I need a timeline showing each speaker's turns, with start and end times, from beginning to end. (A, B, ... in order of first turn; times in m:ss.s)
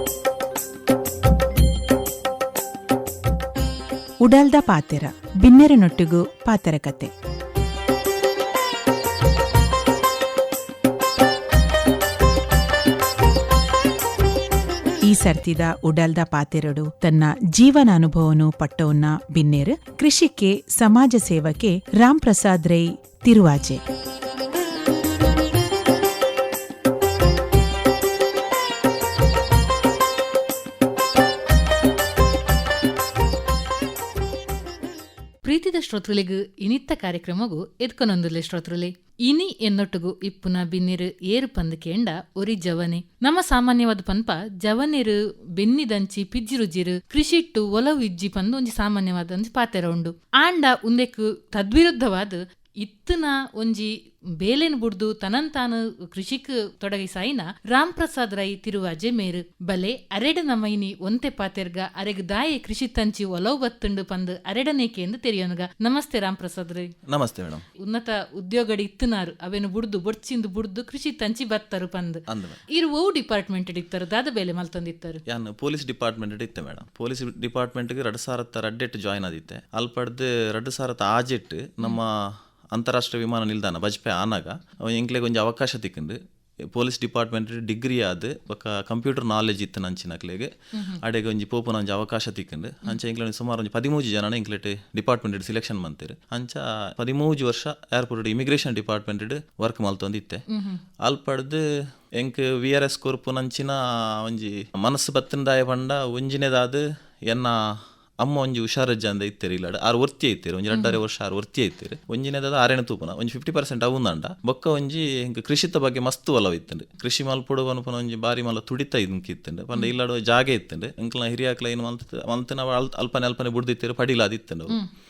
0:04.2-0:07.1 A
0:15.0-0:23.8 A
0:35.4-1:06.9 B
1:07.0-1:07.6 C
1:07.8-1:15.2 B
1:12.3-1:12.6 C
1:15.3-1:26.2 C
1:26.7-1:40.4 C
1:30.7-1:31.0 B
1:40.5-1:40.8 B
1:41.0-2:04.8 C
1:50.7-1:51.0 B